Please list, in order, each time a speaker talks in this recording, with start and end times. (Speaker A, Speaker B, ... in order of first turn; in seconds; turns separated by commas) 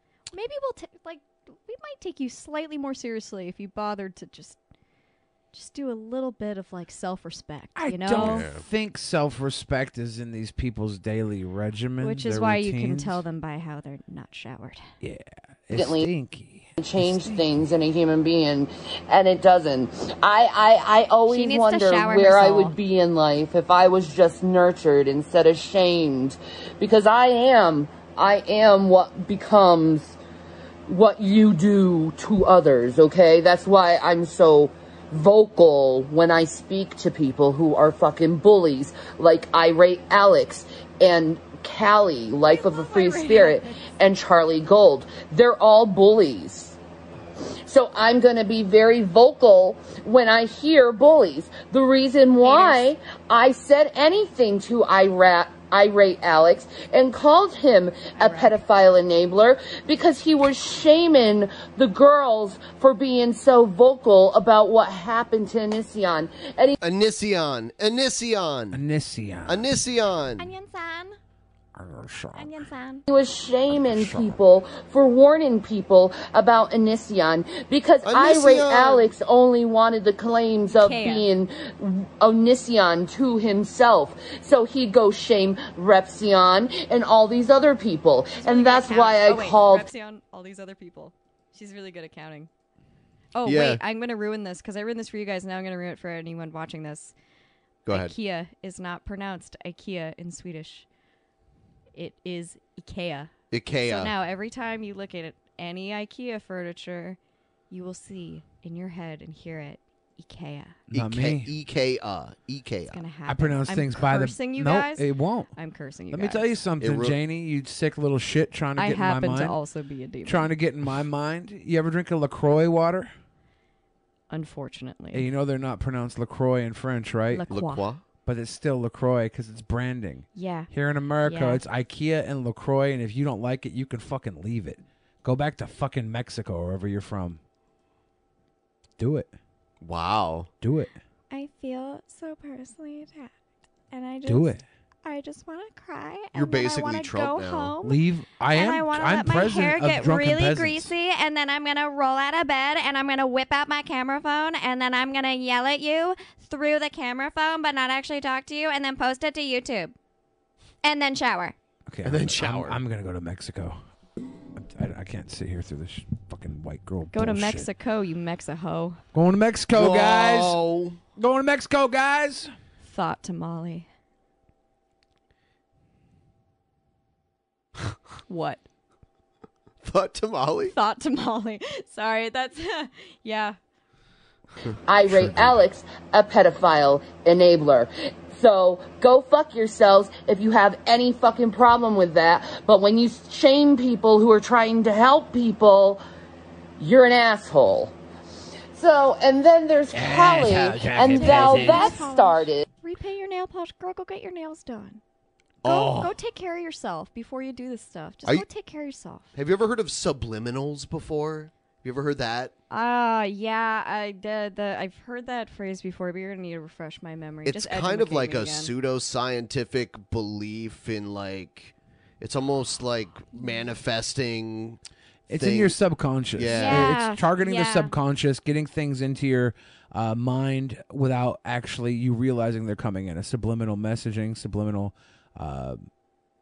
Speaker A: 0.3-4.6, Speaker A: 5.5-8.5, Speaker B: 7.8-13.2, Speaker C: 8.1-8.6, Speaker A: 12.0-14.8, Speaker B: 15.0-17.6, Speaker D: 15.7-16.1, Speaker D: 16.8-30.2, Speaker E: 21.3-22.7, Speaker D: 30.9-46.8, Speaker A: 42.5-43.9, Speaker D: 47.6-66.8, Speaker A: 52.4-52.9, Speaker A: 58.2-58.5, Speaker C: 66.8-68.8, Speaker B: 68.7-69.7, Speaker C: 69.5-70.5, Speaker E: 70.4-71.2, Speaker B: 71.7-72.7, Speaker E: 72.3-73.0, Speaker D: 73.1-89.9, Speaker B: 73.7-74.4, Speaker C: 78.0-79.1, Speaker A: 80.8-81.3, Speaker A: 88.3-92.5, Speaker A: 93.3-97.1, Speaker C: 93.4-93.8, Speaker C: 97.8-98.1, Speaker A: 97.9-100.8, Speaker A: 101.9-103.3, Speaker C: 103.5-104.1, Speaker A: 103.8-107.2, Speaker A: 107.7-110.8, Speaker B: 110.9-111.5, Speaker C: 110.9-113.0, Speaker A: 112.9-116.5, Speaker B: 113.3-115.5, Speaker B: 116.1-119.6, Speaker C: 116.8-117.2, Speaker A: 118.8-120.5, Speaker B: 120.2-123.1, Speaker A: 124.3-125.2, Speaker B: 125.1-127.5, Speaker A: 127.3-127.9, Speaker C: 127.5-128.0, Speaker B: 128.2-137.4, Speaker A: 130.3-130.7, Speaker A: 131.2-131.6, Speaker B: 139.0-139.3, Speaker C: 139.8-140.5, Speaker B: 140.6-140.9, Speaker A: 141.3-143.3, Speaker A: 143.9-144.5, Speaker B: 144.2-144.6, Speaker A: 145.0-147.9, Speaker E: 145.7-146.6, Speaker C: 146.3-147.8, Speaker B: 147.8-150.9, Speaker E: 148.5-159.9, Speaker E: 160.8-161.5, Speaker B: 161.9-163.8, Speaker C: 162.0-162.8, Speaker B: 164.6-167.7, Speaker A: 167.1-169.0, Speaker B: 169.1-170.6, Speaker C: 169.7-171.0, Speaker B: 171.2-172.5, Speaker A: 172.8-173.9, Speaker A: 178.3-178.6, Speaker C: 179.8-180.7, Speaker A: 180.6-183.6, Speaker D: 184.9-196.0, Speaker D: 196.8-197.9, Speaker D: 198.7-202.6, Speaker B: 199.9-202.1, Speaker A: 200.9-205.0, Speaker C: 205.6-206.1, Speaker A: 205.6-209.3, Speaker C: 209.3-212.5, Speaker A: 212.7-218.7, Speaker C: 217.4-224.8, Speaker B: 225.3-235.9, Speaker C: 225.3-225.8, Speaker C: 226.3-226.9, Speaker E: 226.5-227.9, Speaker A: 226.5-227.2